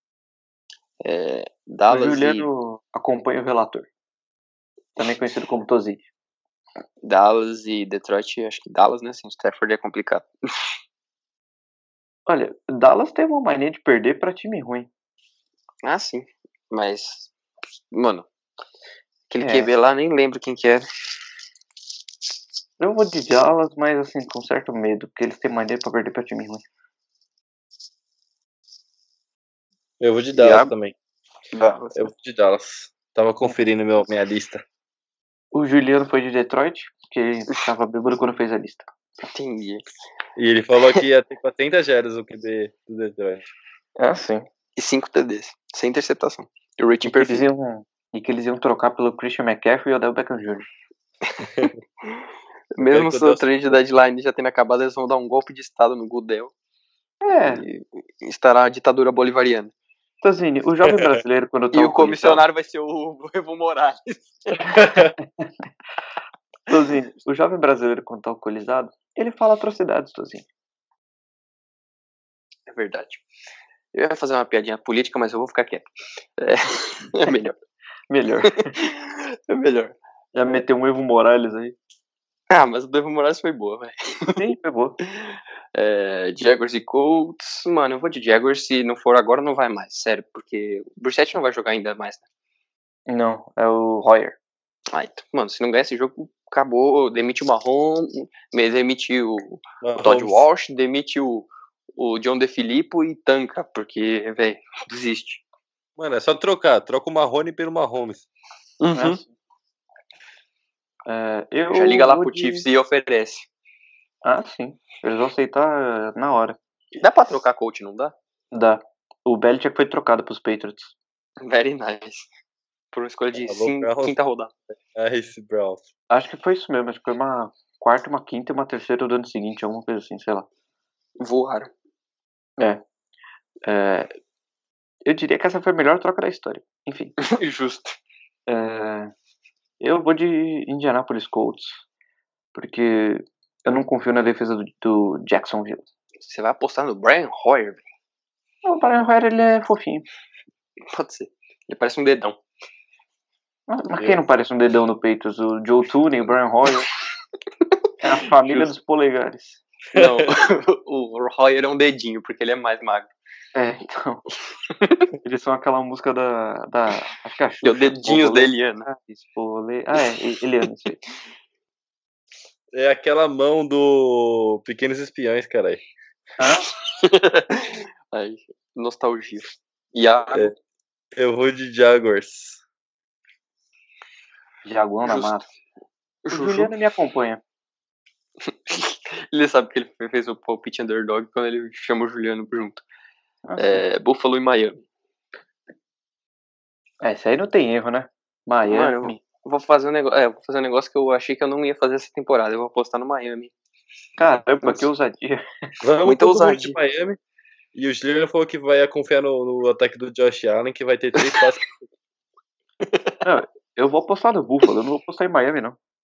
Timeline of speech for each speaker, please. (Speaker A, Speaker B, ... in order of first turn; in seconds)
Speaker A: 1.0-2.5, 7.0-10.3, 15.8-17.3, 17.9-18.3, 19.3-20.9, 30.3-30.7, 31.5-32.1, 39.2-39.8, 44.8-47.5, 52.7-56.5, 57.5-59.7, 61.7-64.8, 72.7-73.2, 73.9-75.8, 76.4-77.5, 78.5-80.0, 82.5-84.4, 85.7-92.2, 94.9-105.4, 108.8-109.2, 111.7-113.5, 117.0-118.1, 121.4-122.3, 122.9-124.5, 131.2-131.7, 137.2-138.0, 146.2-147.8, 150.9-152.4, 158.4-158.7, 159.9-163.1, 164.7-165.1, 167.6-168.9, 176.6-180.5, 185.0-185.4, 186.2-186.7, 188.4-192.8, 193.6-194.8, 198.6-203.5, 206.0-206.8, 211.2-211.4, 212.8-213.2
Speaker B: 1.9-3.9, 5.0-6.0, 12.3-14.9, 19.4-19.7, 22.8-26.6, 35.5-38.9, 44.0-44.5, 47.0-50.7, 57.2-57.6, 60.2-62.4, 65.2-65.5, 66.7-70.5, 78.1-78.7, 80.3-81.8, 84.3-85.0, 93.1-94.3, 109.0-109.3, 111.0-112.7, 114.2-116.6, 118.5-120.9, 126.1-130.5, 133.6-134.1, 135.1-137.2, 138.5-139.1, 139.8-141.8, 142.5-145.8, 148.6-150.1, 153.7-156.9, 158.0-159.6, 163.5-164.2, 165.2-171.0, 176.4-176.7, 184.6-185.4, 186.3-187.4, 193.4-193.8, 197.0-199.2, 204.2-205.4, 213.2-215.8
Speaker C: 30.0-30.9, 31.9-34.6, 40.4-43.5, 52.8-53.8, 64.7-65.1, 99.8-100.4, 106.0-108.3, 123.4-124.1, 124.7-125.8, 159.9-160.3, 172.7-175.8, 181.1-182.6, 205.8-207.2, 207.7-211.8